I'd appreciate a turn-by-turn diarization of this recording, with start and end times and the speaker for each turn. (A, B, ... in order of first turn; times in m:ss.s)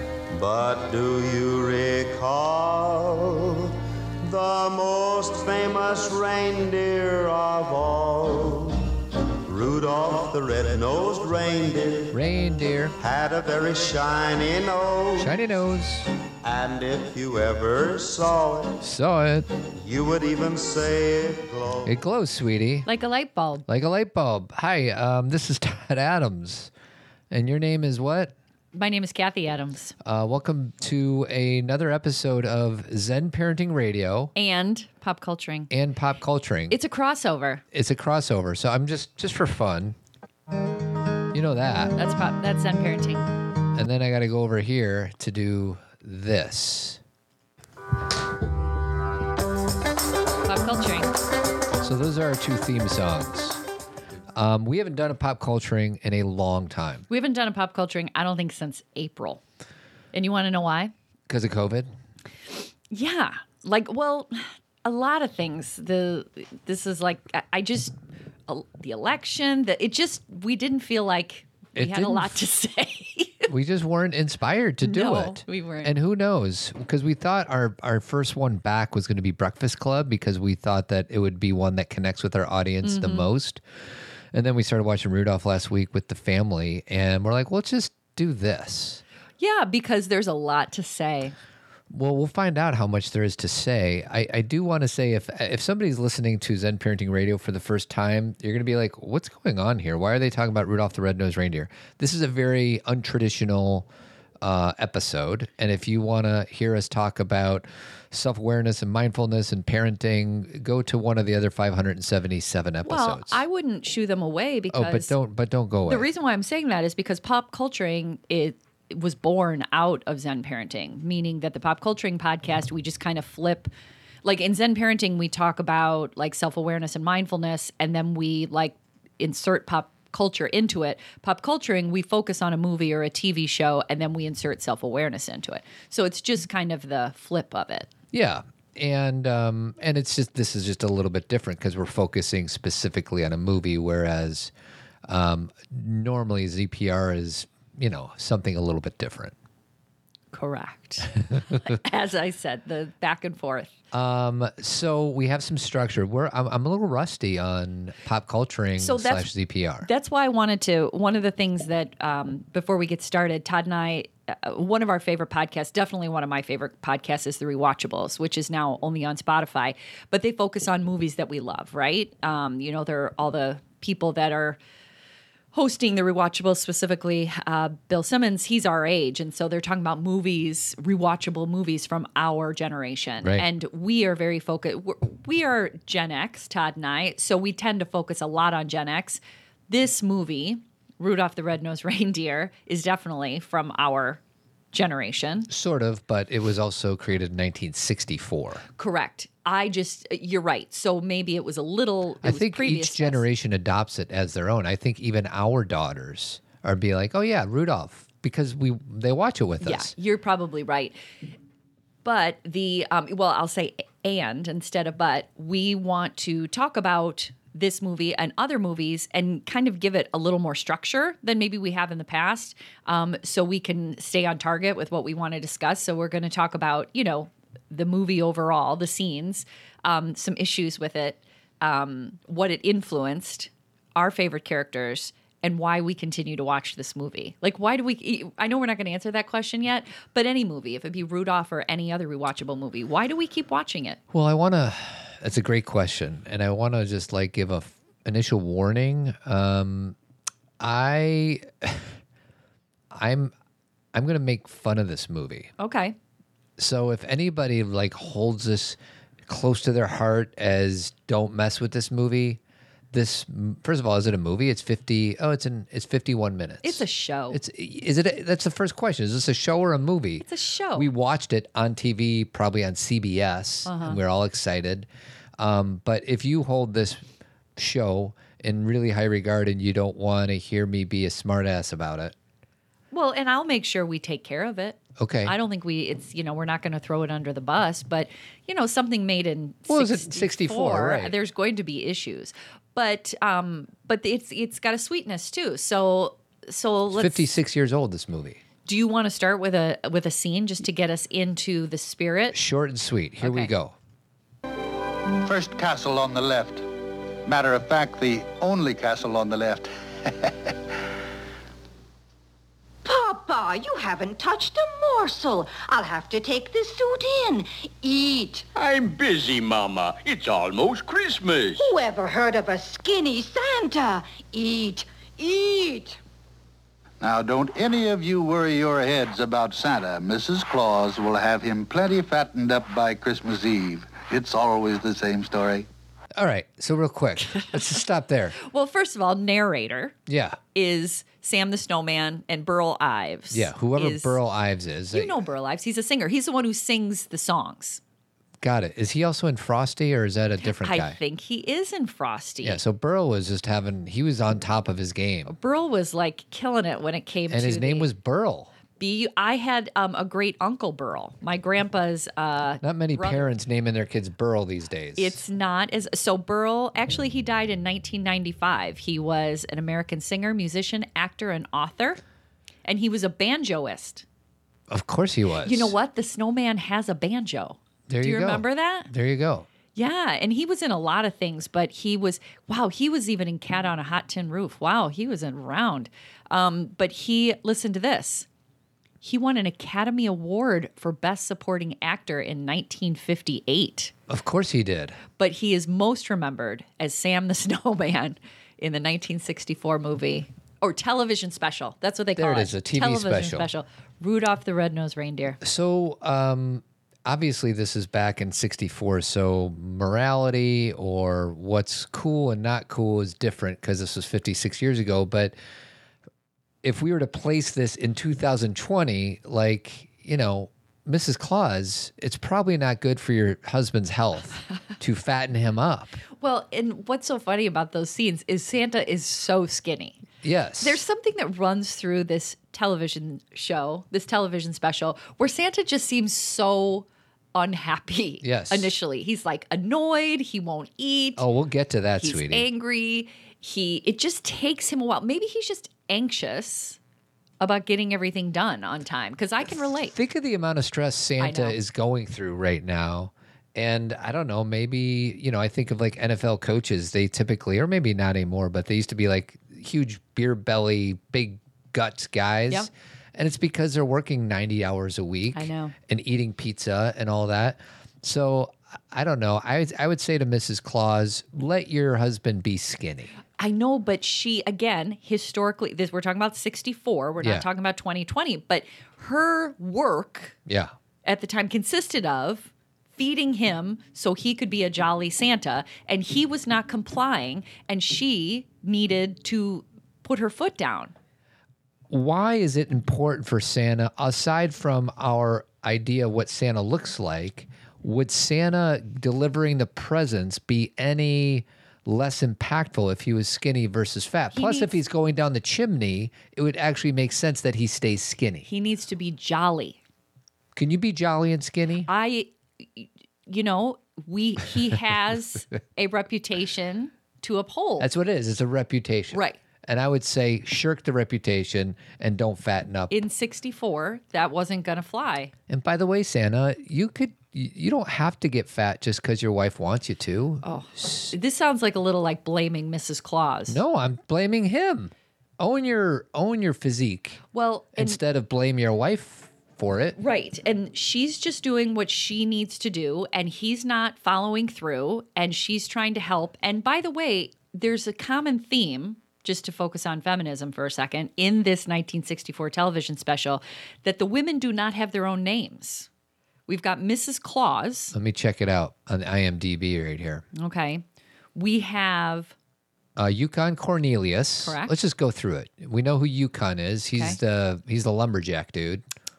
0:00.3-0:08.8 A
0:09.4-0:12.1 A
0:12.1-0:12.9 B
0:13.0-0:15.3 A
0:15.2-0:16.1 B
0:16.4-0:18.8 A
0:18.8-0:19.5 B
0:19.7-0:21.9 A
0:21.8-0:22.9 B
0:22.9-0:23.6 C
0:23.7-0:26.7 B
0:27.3-0:28.3 B
0:28.7-0:29.9 C
0:30.0-0:34.3 B
0:34.3-0:35.7 C
0:35.7-0:36.8 B
0:36.7-0:37.6 C
0:37.7-0:40.0 B
0:41.3-0:41.9 B
0:42.0-0:43.2 C
0:43.7-0:47.0 B
0:50.4-0:51.1 C
0:51.8-0:53.6 B
0:54.3-0:57.0 B
0:57.1-0:59.4 C
1:00.1-1:00.9 C
1:01.3-1:01.9 B
1:02.9-1:08.0 C
1:08.5-1:13.5 C
1:11.8-1:12.4 B
1:13.5-1:23.6 B
1:14.8-1:16.0 C
1:22.8-1:23.3 C
1:24.3-1:29.0 B
1:29.4-1:31.3 C
1:31.9-1:43.9 B
1:44.4-1:53.4 B
1:52.8-1:55.1 C
1:54.7-1:56.1 B
1:55.8-2:03.7 C
2:04.2-2:17.9 C
2:18.1-2:24.5 B
2:25.0-2:29.3 B
2:30.3-2:33.7 C
2:33.9-2:39.9 B
2:38.8-2:39.3 C
2:39.8-2:54.6 C
2:55.5-3:14.2 C
3:03.2-3:03.5 B
3:14.7-3:15.5 C
3:15.5-3:18.6 B
3:18.8-3:23.2 C
3:22.2-3:29.9 B
3:29.6-3:31.0 C
3:32.0-4:04.0 C
4:04.1-4:10.0 B
4:10.6-4:11.9 B
4:12.9-4:13.3 B
4:13.9-4:15.5 B
4:15.6-4:16.0 C
4:16.6-4:22.4 B
4:22.9-4:37.0 B
4:26.6-4:27.4 C
4:30.2-4:30.9 C
4:33.6-4:34.0 C
4:37.6-4:42.1 B
4:42.9-4:57.2 C
4:45.0-4:45.3 B
4:49.7-4:51.1 B
4:56.9-4:58.4 B
4:58.6-5:02.4 C
5:02.3-5:03.8 B
5:03.2-5:03.5 C
5:05.2-5:06.6 D
5:07.2-5:10.6 D
5:12.8-5:18.4 E
5:18.5-5:21.7 F
5:21.6-5:26.0 E
5:27.0-5:35.7 D
5:36.1-5:38.4 B
5:38.4-5:40.0 C
5:40.1-5:40.4 B
5:40.5-5:44.2 C
5:43.3-5:45.2 B
5:44.9-5:47.8 C
5:48.4-5:51.0 B
5:50.4-5:52.6 C
5:52.4-5:55.3 B
5:55.3-5:57.9 C
5:57.3-5:58.5 B
5:58.8-6:03.3 C
6:02.6-6:05.2 B
6:05.0-6:12.0 C
6:12.6-6:14.0 C
6:14.7-6:15.7 B
6:15.4-6:18.9 C
6:17.9-6:19.5 B
6:19.7-6:28.2 C
6:29.0-6:33.9 C
6:34.1-6:35.0 B
6:35.2-6:45.4 C
6:42.2-6:43.5 B
6:45.4-6:55.3 B
6:56.6-7:06.0 B
7:06.2-7:10.0 C
7:10.2-7:10.8 B
7:10.6-7:21.2 C
7:18.2-7:18.7 B
7:21.2-7:22.5 B
7:22.0-7:26.8 C
7:27.4-7:29.9 C
7:29.5-7:53.1 B
7:31.2-7:31.6 C
7:45.3-7:45.7 C
7:53.4-8:00.4 C
8:00.5-8:00.7 B
8:01.0-8:10.9 C
8:11.9-8:28.5 B
8:24.3-8:24.8 C
8:28.5-8:29.8 C
8:30.5-8:31.9 B
8:31.9-8:37.9 C
8:37.8-8:42.9 B
8:39.1-8:39.4 C
8:42.9-8:45.3 C
8:45.5-8:51.1 B
8:50.4-8:53.6 C
8:53.5-8:57.2 B
8:57.3-8:58.0 C
8:57.8-9:00.0 B
9:00.0-9:15.9 C
9:16.5-9:17.9 C
9:17.9-9:20.2 B
9:20.4-9:20.8 C
9:21.3-9:22.3 C
9:23.0-9:28.8 B
9:24.4-9:24.8 C